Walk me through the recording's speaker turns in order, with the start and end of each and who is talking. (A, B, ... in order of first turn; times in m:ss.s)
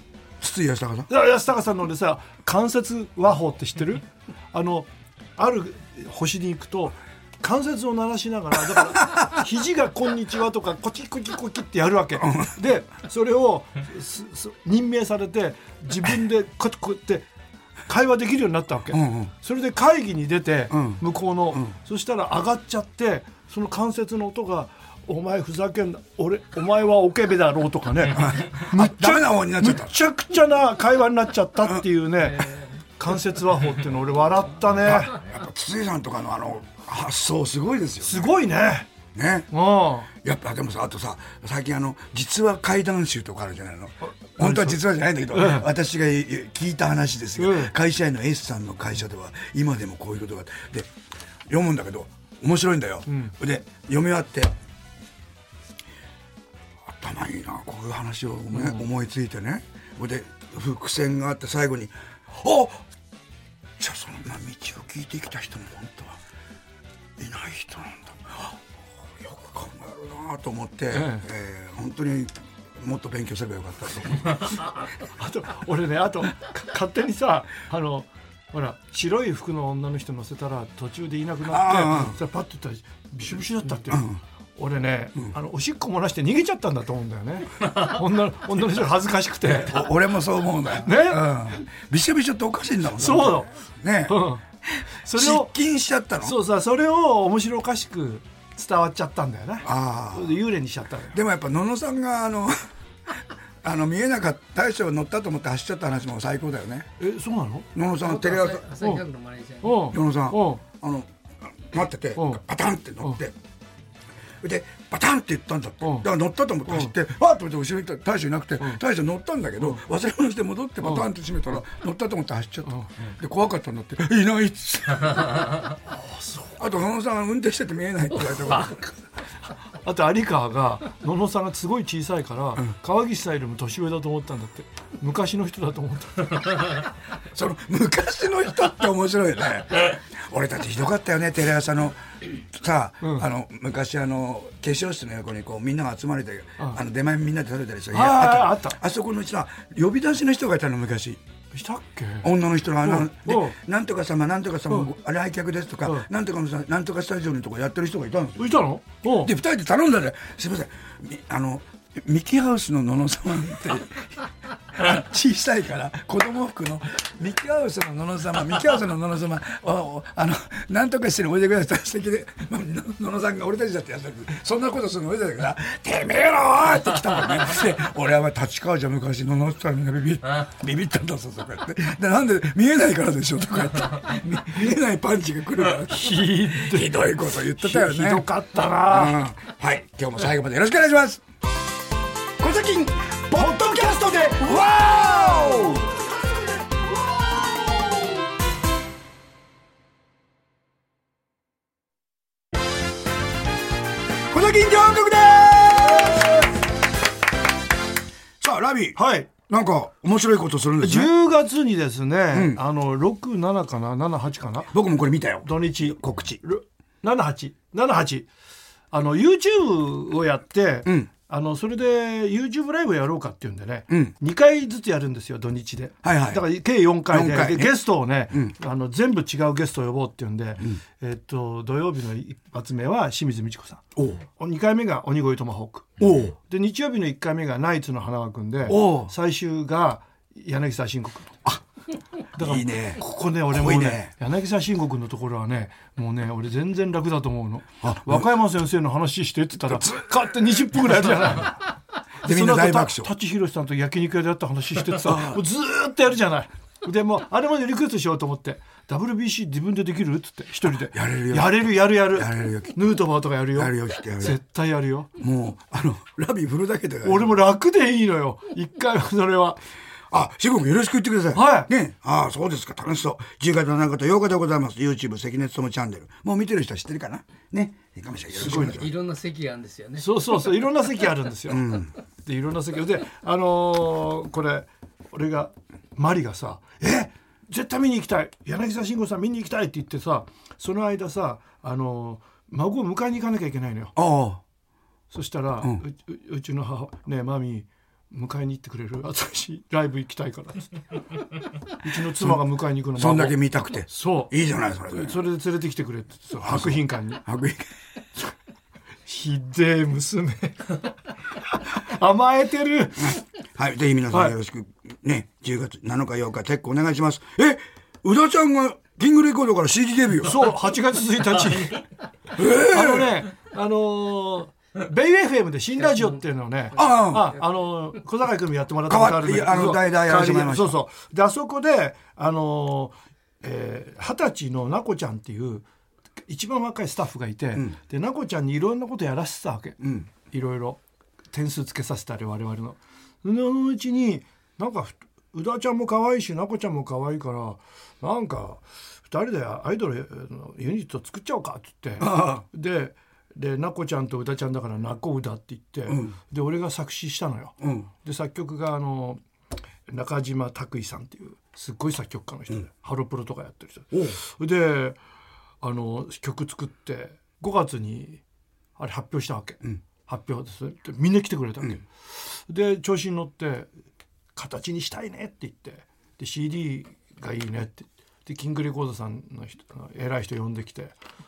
0:00.4-0:01.1 A
0:01.1-0:17.3 B
0:12.2-0:12.5 A
0:17.8-0:35.2 B
0:18.9-0:19.3 A
0:20.7-0:21.7 A
0:28.1-0:29.9 A
0:34.8-0:38.4 A
0:38.0-0:38.9 B
0:39.1-0:39.5 A
0:39.5-0:40.1 B
0:40.1-0:50.9 A
0:44.0-0:44.8 B
0:45.3-0:45.7 B
0:47.4-0:47.7 B
0:51.5-0:54.6 A
0:53.1-0:53.3 B
0:56.8-1:02.8 A
0:58.5-0:58.8 B
1:03.8-1:06.2 A
1:07.2-1:08.6 A
1:09.2-1:14.6 A
1:10.9-1:11.2 B
1:15.2-1:29.8 B
1:21.5-1:22.2 A
1:23.9-1:24.2 A
1:29.5-1:36.4 A
1:30.8-1:31.3 B
1:33.0-1:33.5 B
1:34.1-1:34.4 B
1:35.0-1:35.5 B
1:36.2-1:41.1 B
1:39.6-1:40.4 A
1:41.1-1:42.6 A
1:43.6-1:46.9 A
1:47.0-1:47.7 B
1:47.7-1:48.6 A
1:48.0-1:49.8 C
1:49.6-1:50.6 B
1:49.9-1:53.3 A
1:54.4-2:05.7 A
1:55.8-1:56.1 B
1:56.7-1:56.9 B
2:00.8-2:01.1 B
2:05.9-2:06.6 B
2:06.6-2:08.7 A
2:09.8-2:16.6 B
2:17.3-2:31.2 A
2:27.9-2:28.8 B
2:31.5-2:32.3 B
2:32.2-2:38.5 A
2:32.8-2:33.6 B
2:38.4-2:39.3 B
2:39.1-2:44.2 A
2:44.7-3:11.2 A
3:05.9-3:07.0 B
3:07.5-3:09.2 B
3:12.4-3:16.0 A
3:13.3-3:14.4 B
3:24.3-3:26.3 A
3:26.0-3:26.3 B
3:28.4-3:31.1 A
3:29.0-3:29.3 B
3:30.8-3:34.7 B
3:32.3-3:32.6 A
3:34.7-3:36.4 A
3:35.4-3:38.3 B
3:38.9-3:53.8 B
3:46.0-3:48.5 A
3:54.0-3:54.2 A
3:54.4-4:01.4 B
3:56.0-3:56.3 A
3:58.7-3:59.1 A
4:02.3-4:11.6 B
4:02.4-4:04.1 A
4:07.8-4:08.2 A
4:09.7-4:10.0 A
4:12.2-4:13.1 A
4:12.2-4:25.1 B
4:14.8-4:15.4 A
4:20.8-4:22.8 A
4:23.5-4:24.4 A
4:25.2-4:27.3 A
4:27.0-4:29.6 B
4:30.1-4:38.9 A
4:31.3-4:31.7 B
4:38.4-4:38.8 B
4:38.4-4:40.5 C
4:40.0-4:53.9 B
4:41.5-4:41.9 A
4:54.0-4:54.4 A
4:55.1-5:00.7 B
5:01.8-5:04.4 B
5:02.9-5:05.2 A
5:04.9-5:07.2 B
5:06.4-5:07.6 A
5:09.1-5:10.8 B
5:11.7-5:13.2 B
5:13.0-5:20.5 A
5:20.2-5:21.8 B
5:22.4-5:23.2 A
5:22.5-5:35.6 B
5:25.8-5:26.2 C
5:26.7-5:27.2 C
5:26.7-5:27.4 A
5:28.9-5:30.8 A
5:36.3-5:40.8 B
5:39.8-5:40.1 A
5:41.3-5:59.2 B
5:52.0-5:52.4 A
5:55.9-5:56.2 A
5:57.6-5:57.9 A
5:59.9-6:05.0 B
6:03.9-6:04.2 A
6:05.6-6:08.2 B
6:08.8-6:13.7 B
6:14.3-6:21.0 B